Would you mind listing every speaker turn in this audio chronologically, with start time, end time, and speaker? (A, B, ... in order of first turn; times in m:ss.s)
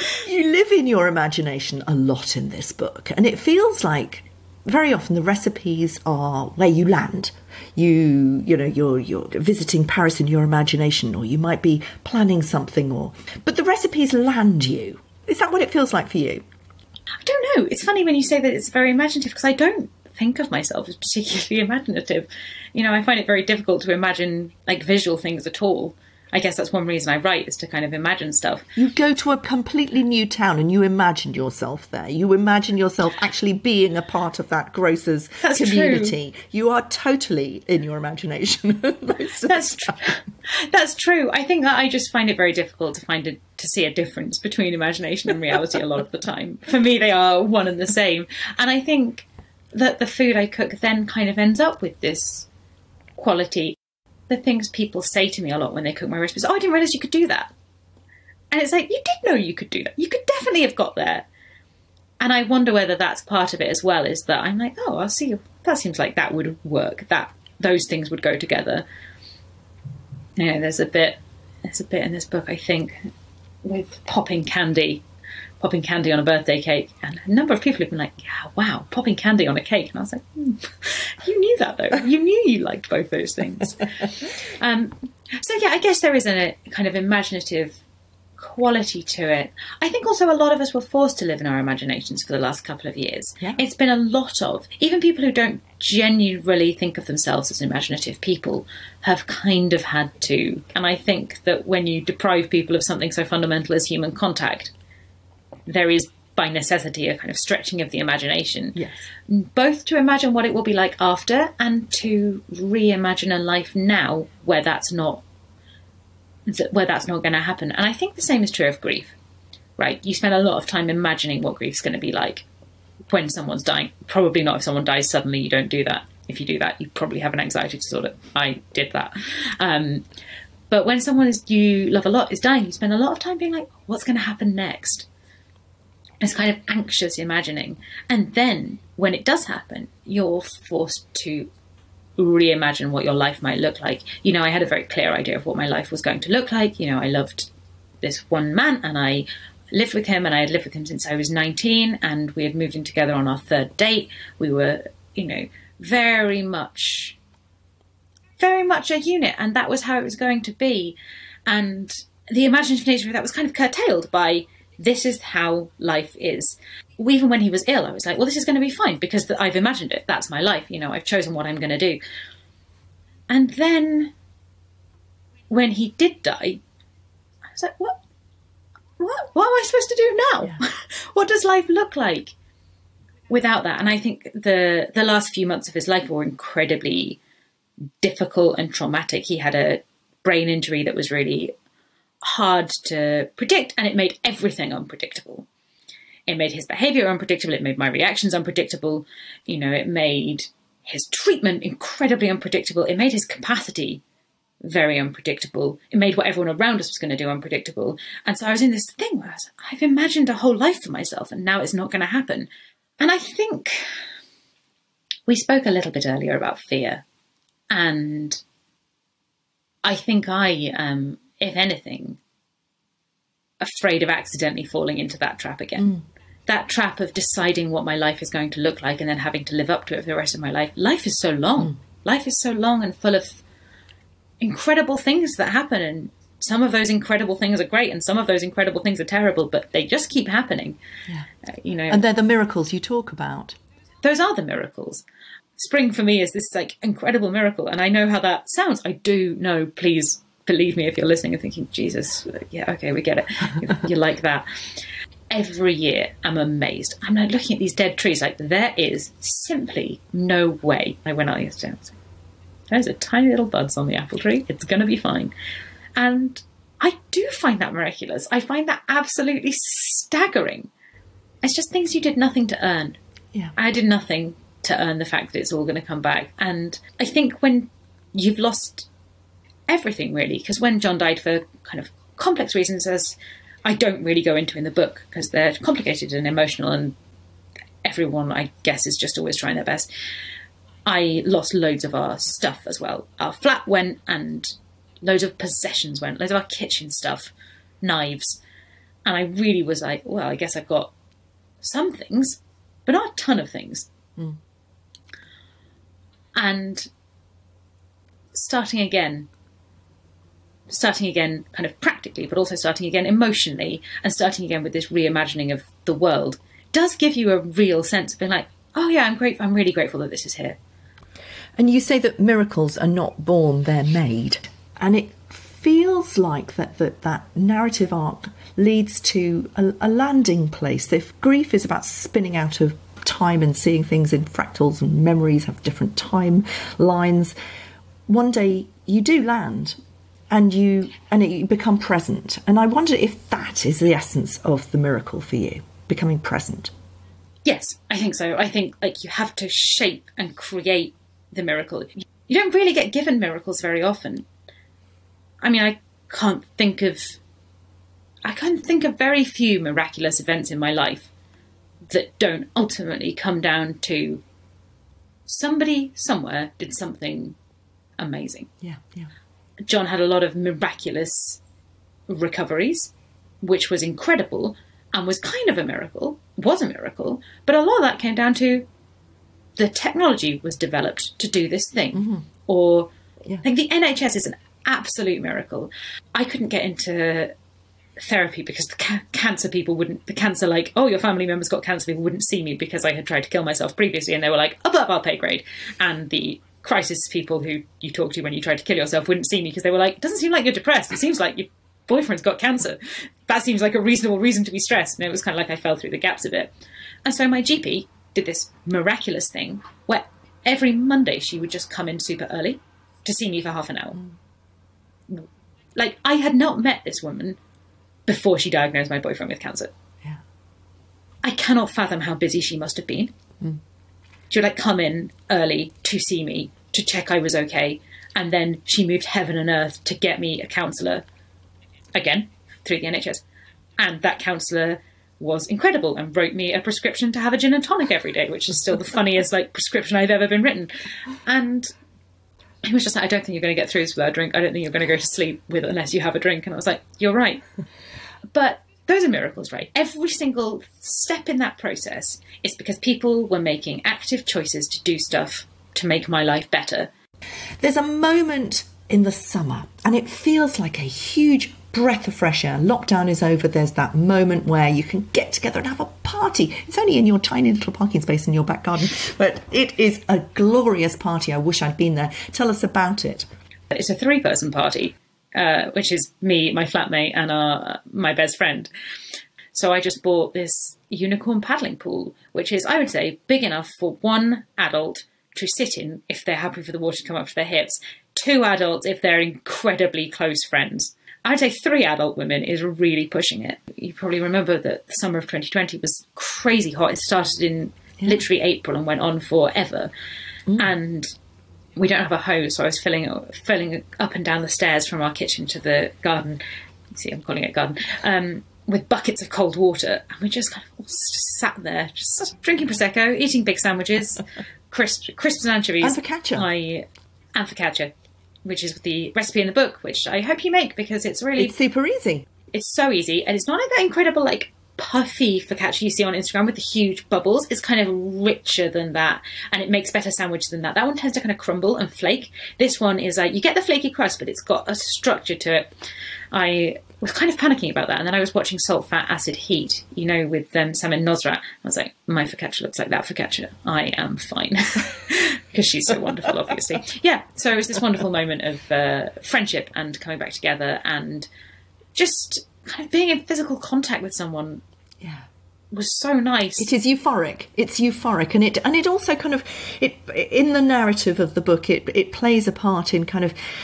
0:00.1-0:16.4 A
0:17.2-0:28.7 B
0:28.8-0:40.0 A
0:35.4-0:36.2 B
0:39.4-0:52.5 B
0:53.2-0:53.8 B
0:54.3-0:57.5 B
0:58.5-1:01.3 B
1:02.2-1:08.8 B
1:10.4-1:13.1 B
1:13.6-1:15.0 B
1:15.6-1:27.8 B
1:28.4-1:44.7 B
1:45.7-1:55.2 B
1:48.8-1:49.1 A
1:56.5-1:59.2 B
1:59.8-2:02.4 B
2:03.1-2:10.1 B
2:10.7-2:15.1 B
2:16.2-2:21.5 B
2:22.2-2:37.2 B
2:38.4-2:52.0 B
2:53.3-2:54.1 B
2:55.5-2:56.6 B
2:57.5-2:58.0 B
2:59.0-3:02.4 B
3:03.3-3:07.2 B
3:08.0-3:11.5 B
3:12.2-3:15.5 B
3:16.3-3:24.0 B
3:24.6-3:34.0 B
3:35.3-3:37.0 B
3:37.7-3:38.4 B
3:39.8-3:42.2 B
3:43.6-3:53.4 B
3:54.4-4:00.8 B
4:01.4-4:02.0 B
4:01.9-4:03.6 A
4:04.0-4:05.0 B
4:05.6-4:22.0 B
4:22.7-4:25.3 B
4:26.0-4:30.7 B
4:31.4-4:33.0 B
4:33.6-4:38.9 B
4:39.7-4:47.0 B
4:47.8-4:49.9 B
4:50.8-4:58.4 B
4:59.0-5:00.9 B
5:01.6-5:03.9 B
5:06.4-5:06.9 B
5:08.3-5:09.3 B
5:10.7-5:20.6 B
5:21.6-5:37.3 A
5:38.1-5:39.8 A
5:40.3-5:46.7 A
5:47.4-5:54.3 B
5:55.4-5:57.2 B
5:58.2-6:01.1 B
6:01.9-6:04.2 B
6:05.3-6:07.4 B
6:08.0-6:08.5 B
6:08.6-6:09.1 A
6:09.6-6:11.4 B
6:12.1-6:18.7 B
6:19.6-6:22.9 B
6:21.9-6:22.2 A
6:23.4-6:27.3 B
6:28.0-6:46.5 B
6:47.0-6:54.0 B
6:55.1-6:57.4 B
6:58.1-6:59.7 B
7:01.2-7:03.1 B
7:04.3-7:11.0 B
7:12.0-7:13.2 B
7:13.8-7:21.7 B
7:22.6-7:27.4 B
7:28.3-7:36.9 B
7:37.6-7:53.3 A
7:53.7-7:58.7 B
7:59.5-8:19.9 B
8:20.6-8:21.1 B
8:21.8-8:26.4 B
8:26.9-8:37.9 B
8:35.8-8:36.5 A
8:38.4-8:41.6 B
8:41.4-8:42.3 A
8:42.5-8:55.7 B
8:56.3-9:11.3 B
9:12.0-9:14.6 B
9:15.0-9:15.3 A
9:15.7-9:16.7 B
9:16.6-9:23.4 A